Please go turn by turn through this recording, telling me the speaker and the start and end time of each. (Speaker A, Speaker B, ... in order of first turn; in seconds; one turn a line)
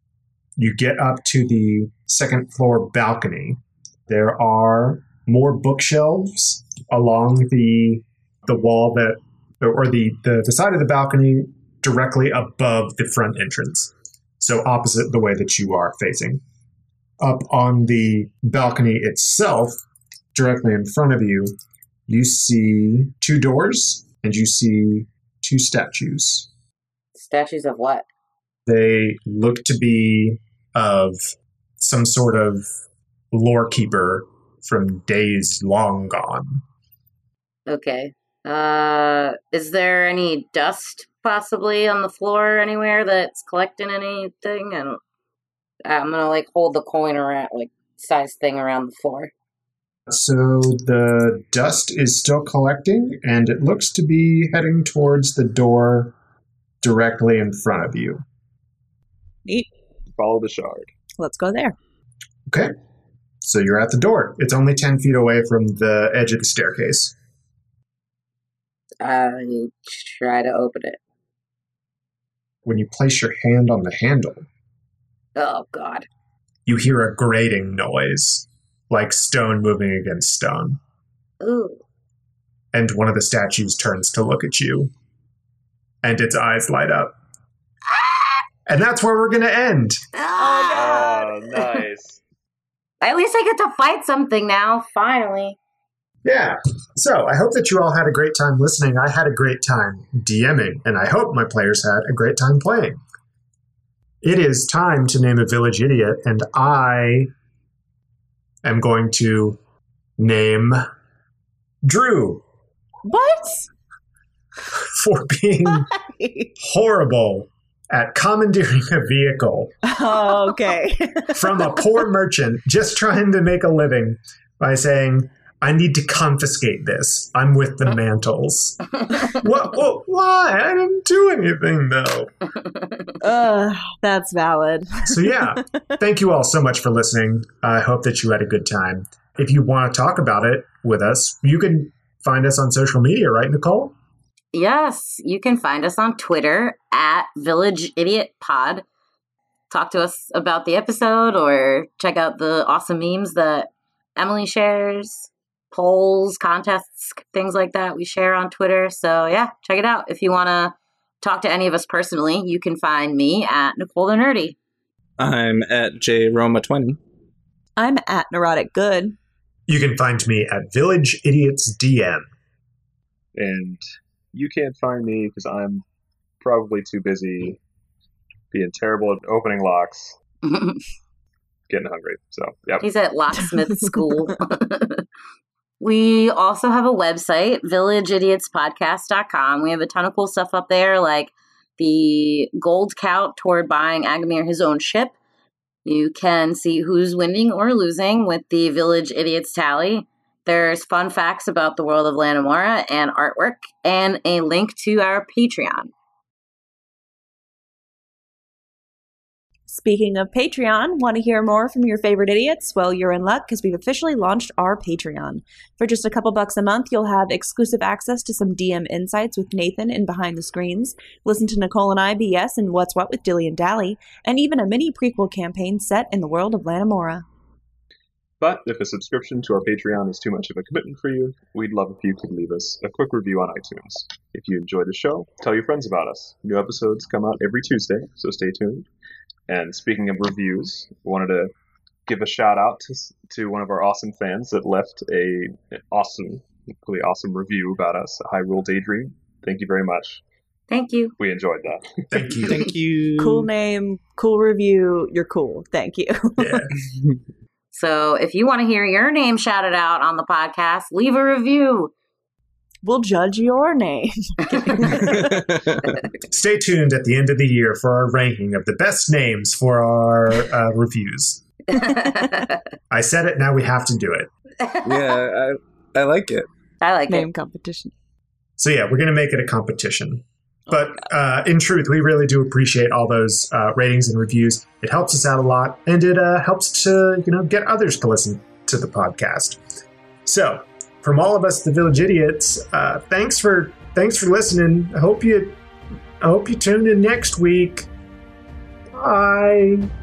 Speaker A: 0.6-16.4
Speaker A: 17.2-19.8
Speaker A: 20.3-21.5
Speaker A: 22.1-26.5
Speaker B: 27.1-28.1
Speaker A: 28.7-32.7
Speaker A: 33.3-36.6
Speaker B: 37.7-45.0
Speaker B: 45.9-49.3
Speaker A: 50.1-56.1
Speaker A: 56.8-58.2
Speaker C: 60.1-60.9
Speaker D: 61.2-61.8
Speaker A: 62.5-62.7
Speaker A: 63.4-67.2
Speaker B: 69.0-71.0
Speaker A: 72.7-74.5
Speaker B: 75.4-76.1
Speaker A: 76.7-80.8
Speaker B: 81.4-81.8
Speaker A: 82.7-84.9
Speaker A: 86.0-87.1
Speaker A: 88.7-90.0
Speaker B: 90.1-91.6
Speaker D: 90.4-91.3
Speaker C: 90.7-92.2
Speaker B: 93.0-95.6
Speaker A: 96.2-103.0
Speaker A: 104.2-107.3
Speaker A: 108.6-109.6
Speaker A: 110.2-110.8
Speaker A: 111.8-112.4
Speaker D: 113.0-113.7
Speaker A: 114.7-115.9
Speaker D: 115.8-116.5
Speaker A: 116.6-119.7
Speaker D: 119.9-121.7
Speaker A: 121.3-132.3
Speaker D: 133.2-135.6
Speaker A: 135.1-143.9
Speaker B: 144.5-148.9
Speaker B: 149.7-164.6
Speaker E: 165.2-167.0
Speaker D: 167.8-169.2
Speaker A: 169.7-172.3
Speaker C: 173.3-173.8
Speaker C: 174.3-175.8
Speaker C: 176.4-177.6
Speaker C: 178.5-180.2
Speaker B: 180.4-180.8
Speaker C: 181.7-182.9
Speaker B: 182.8-185.1
Speaker B: 185.8-195.2
Speaker B: 195.8-205.9
Speaker D: 209.7-227.2
Speaker C: 228.4-238.9
Speaker C: 239.5-241.5
Speaker C: 242.1-250.2
Speaker B: 250.7-251.2
Speaker C: 251.2-252.1
Speaker A: 252.1-252.7
Speaker E: 252.4-253.5
Speaker D: 253.2-256.6
Speaker A: 256.4-256.7
Speaker B: 257.7-261.9
Speaker D: 262.8-265.4
Speaker E: 264.9-266.0
Speaker A: 266.3-271.4
Speaker B: 271.7-272.5
Speaker A: 272.9-274.3
Speaker B: 274.6-275.2
Speaker E: 274.8-276.5
Speaker B: 276.8-277.3
Speaker D: 277.1-277.9
Speaker A: 278.6-289.6
Speaker A: 290.2-295.6
Speaker A: 296.2-297.9
Speaker A: 299.0-299.9